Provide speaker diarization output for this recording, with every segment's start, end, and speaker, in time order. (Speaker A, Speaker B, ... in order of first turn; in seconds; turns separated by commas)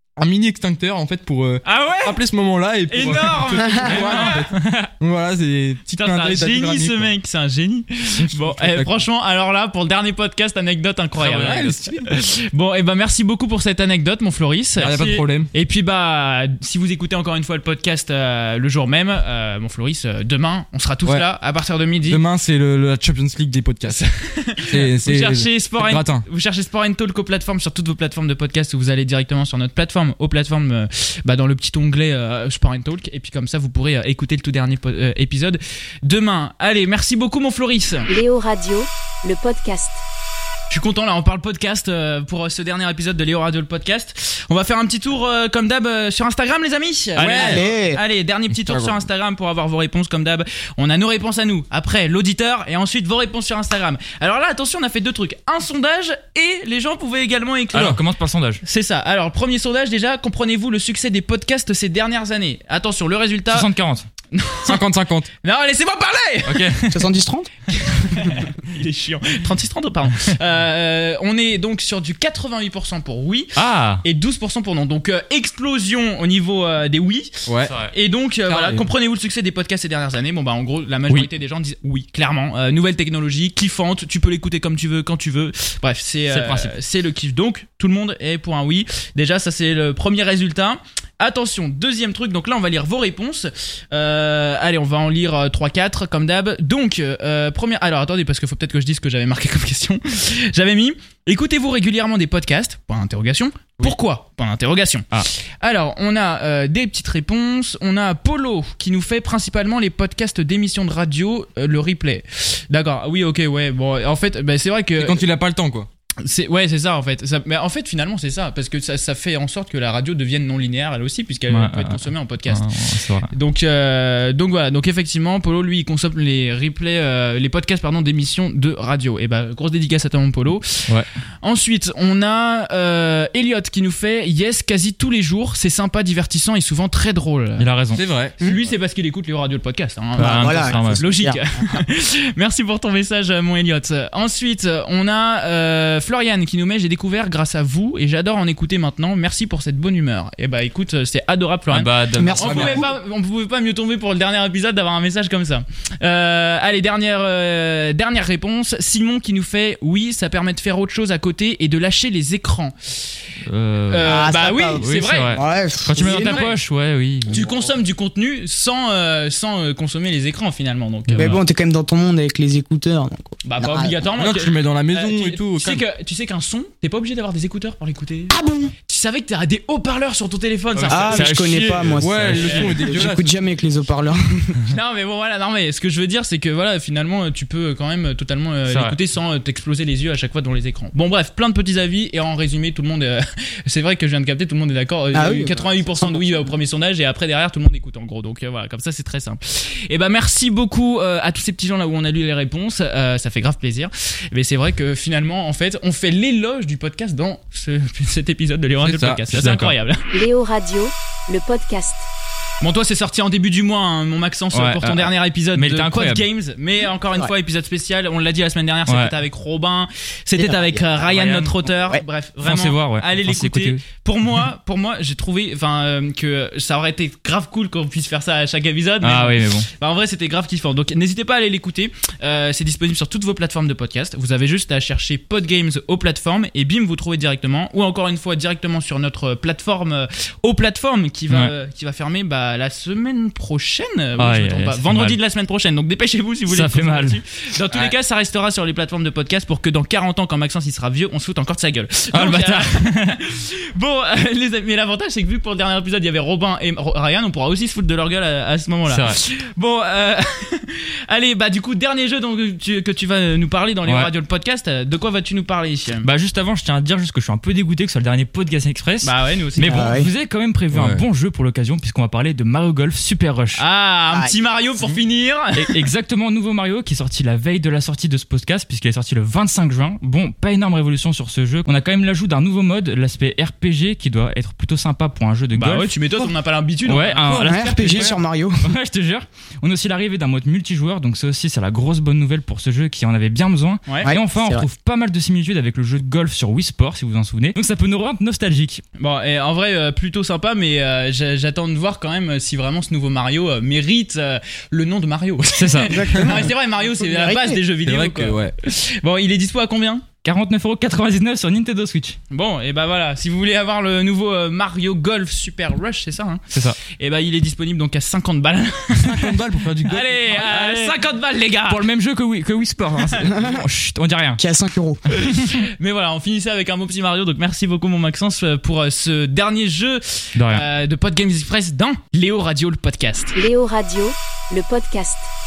Speaker A: 0.2-7.1, Speaker B: 1.6-2.2, Speaker B: 2.9-4.9, Speaker C: 3.9-4.4, Speaker B: 6.0-22.2, Speaker A: 8.2-8.9, Speaker A: 11.2-12.1, Speaker A: 14.8-15.5, Speaker A: 22.1-24.0, Speaker B: 23.9-38.1, Speaker A: 24.6-26.3, Speaker D: 38.1-40.0, Speaker B: 40.7-58.0, Speaker A: 47.2-47.6, Speaker E: 47.4-48.0, Speaker A: 48.6-49.0, Speaker C: 57.7-58.6, Speaker B: 58.6-63.7, Speaker C: 63.5-64.1, Speaker B: 64.3-64.8, Speaker A: 64.7-65.3, Speaker B: 65.4-66.7, Speaker C: 66.5-67.0, Speaker E: 66.9-67.5, Speaker B: 67.7-115.2, Speaker C: 73.6-74.0, Speaker A: 77.5-77.8, Speaker C: 77.7-77.9, Speaker A: 78.5-78.8, Speaker C: 86.3-86.7, Speaker A: 115.0-115.9, Speaker B: 116.2-137.7, Speaker C: 121.5-123.3, Speaker C: 137.6-138.0, Speaker A: 137.9-138.7, Speaker B: 138.4-163.2, Speaker C: 140.2-141.1, Speaker E: 140.2-141.4, Speaker C: 151.7-152.9, Speaker E: 152.2-152.9, Speaker A: 152.5-152.8, Speaker C: 163.5-167.5, Speaker B: 163.9-165.4, Speaker E: 164.0-166.5, Speaker B: 165.9-166.6, Speaker B: 167.3-171.4, Speaker C: 171.1-171.4, Speaker E: 171.2-174.1, Speaker B: 173.4-181.3, Speaker A: 174.2-175.8, Speaker E: 178.3-178.7, Speaker C: 180.9-182.8, Speaker E: 180.9-184.6, Speaker A: 181.7-183.3, Speaker B: 182.3-182.8, Speaker B: 184.7-210.0, Speaker C: 188.7-189.0, Speaker E: 195.1-196.4, Speaker A: 208.9-209.2, Speaker C: 209.3-209.8, Speaker D: 210.1-212.1, Speaker B: 212.6-266.1, Speaker C: 214.5-216.2, Speaker C: 218.9-219.2, Speaker E: 220.4-221.1, Speaker C: 221.1-221.5, Speaker C: 222.4-223.8, Speaker C: 229.0-229.7, Speaker C: 244.2-245.2, Speaker C: 246.5-247.2, Speaker C: 252.1-253.2, Speaker C: 258.9-259.2, Speaker C: 263.9-264.1, Speaker C: 266.0-273.6, Speaker B: 269.0-270.0, Speaker E: 269.7-270.1, Speaker A: 270.7-271.1, Speaker B: 273.6-275.9, Speaker C: 275.6-286.0, Speaker B: 285.6-288.1, Speaker C: 286.9-288.1, Speaker A: 287.3-288.1, Speaker E: 287.4-288.7, Speaker C: 288.6-298.8, Speaker E: 294.1-294.7, Speaker B: 299.0-310.1, Speaker C: 305.6-306.0, Speaker E: 305.9-307.6, Speaker A: 307.8-308.5, Speaker C: 310.2-312.2, Speaker B: 312.3-321.8, Speaker C: 316.5-316.8, Speaker A: 319.0-320.2, Speaker C: 320.3-321.0, Speaker C: 321.7-324.4, Speaker B: 323.0-323.3, Speaker E: 324.4-325.0, Speaker B: 325.1-333.3, Speaker C: 330.4-330.6, Speaker D: 333.4-335.3